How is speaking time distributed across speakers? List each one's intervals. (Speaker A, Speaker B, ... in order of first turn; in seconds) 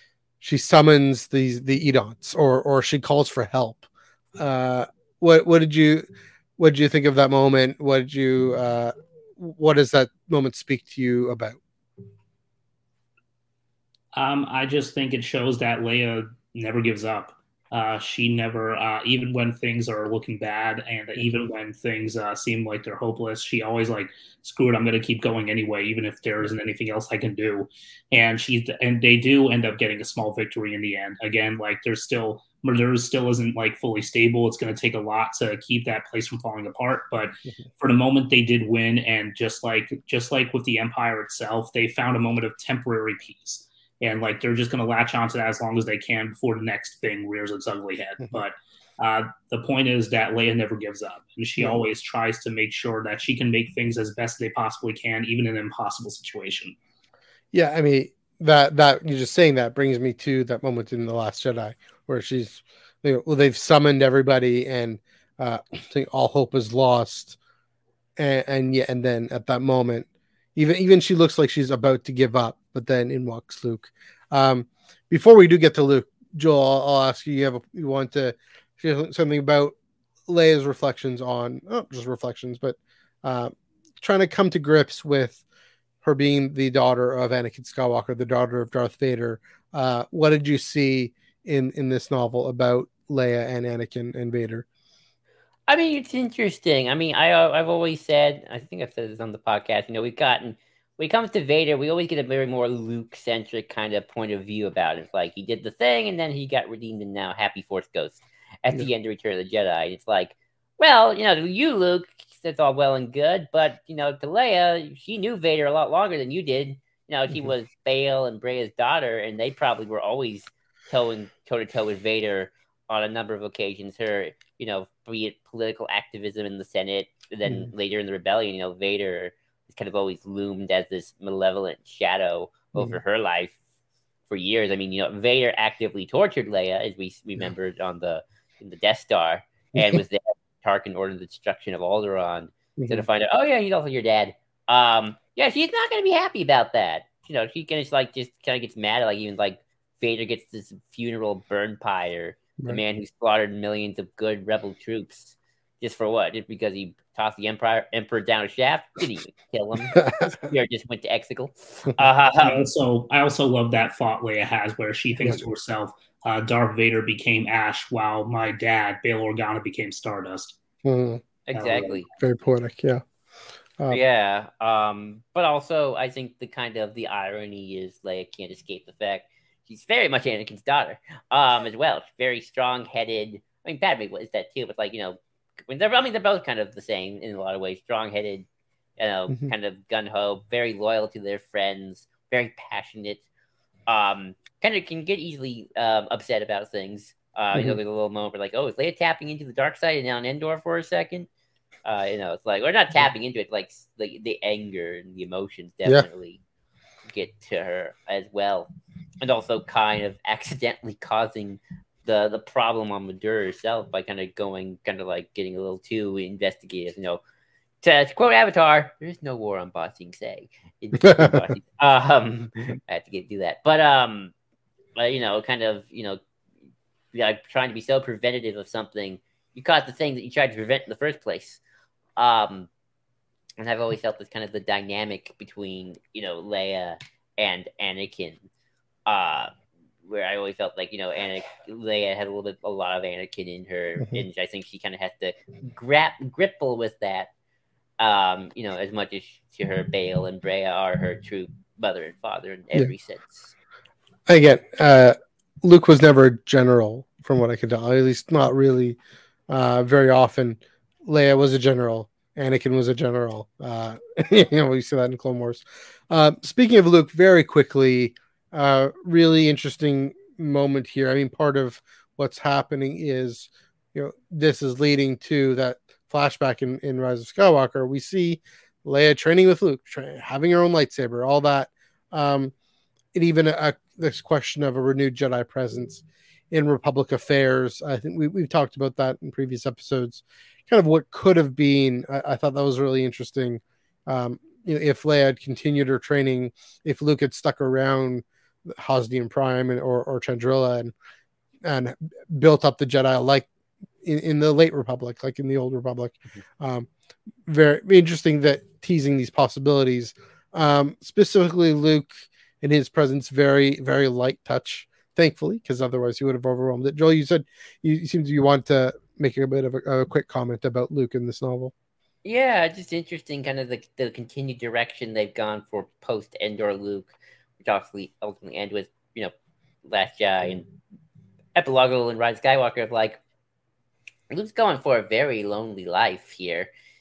Speaker A: 0.4-3.9, 4.4-6.1, 6.6-11.6, 57.5-67.4, 68.2-79.8, 80.3-85.4, 86.0-94.7, 142.8-143.1, 159.9-160.3, 170.8-171.2, 172.2-173.0, 221.0-221.4, 254.3-259.0, 259.5-282.5, 283.1-300.9, 301.6-303.5, 304.0-306.9, 307.5-321.7
Speaker B: 14.2-56.8, 162.4-170.6, 171.6-171.9
Speaker C: 95.7-133.6, 134.3-162.7, 171.5-172.1, 173.9-188.5, 189.0-193.2, 193.9-201.3, 201.8-206.4, 207.1-208.7, 209.2-217.2, 217.8-224.3, 225.0-226.2, 227.1-231.6, 232.2-232.7, 233.6-238.4, 239.1-239.5, 240.1-247.3, 248.0-253.5, 322.2-329.3, 329.9-330.7, 331.6-333.2, 334.3-336.7